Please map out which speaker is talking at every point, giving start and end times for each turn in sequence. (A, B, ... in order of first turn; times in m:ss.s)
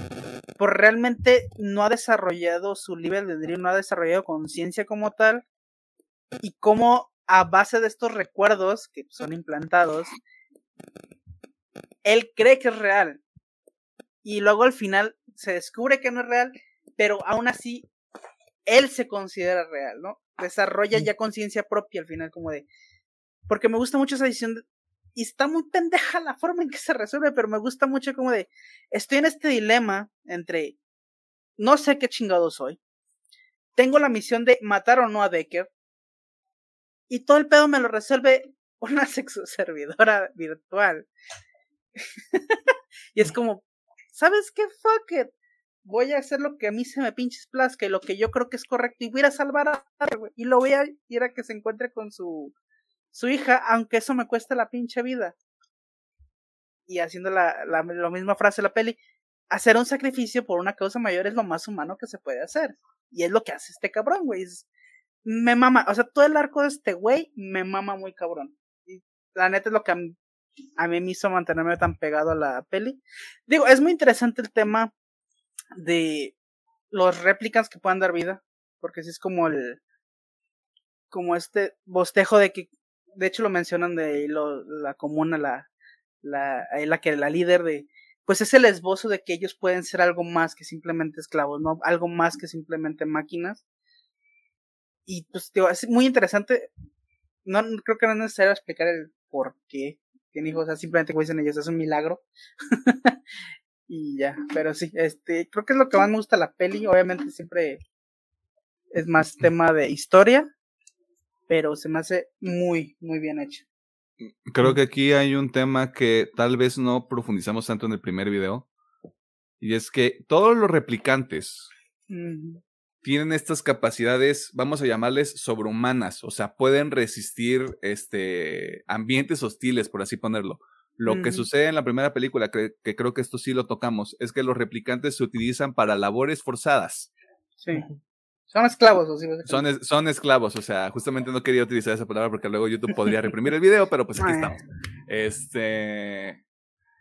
0:00.6-0:05.4 A
0:06.4-0:10.1 A
0:12.0-0:13.2 A
0:14.2-0:17.9 A
0:18.7-0:22.7 A
0:23.5-0:24.6 A
0:25.2-0:30.8 A
0:31.6-0:32.8 A
0:33.8-0:35.7 A
0:37.1-0:41.1 A
0:42.0-0:43.6 A
0:44.2-0:45.3 A
0:45.8-0:52.5 A
0:53.1-0:55.3 A
0:56.9-0:59.0 A
0:59.5-1:04.7 A
1:05.2-1:10.2 A
1:10.8-1:14.9 A
1:15.8-1:16.3 A
1:16.9-1:19.8 A
1:21.1-1:25.7 A
1:26.2-1:33.6 A
1:35.1-1:36.7 A
1:37.5-1:43.2 A
1:43.9-1:47.8 A
1:48.9-1:50.5 A
1:51.5-1:53.6 A
1:54.2-1:58.7 B
1:59.6-2:01.7 B
2:02.1-2:02.6 A
2:03.0-2:17.1 B
2:11.1-2:11.5 A
2:17.6-2:17.9 A
2:18.5-2:19.6 A
2:19.5-2:26.4 B
2:24.2-2:24.6 A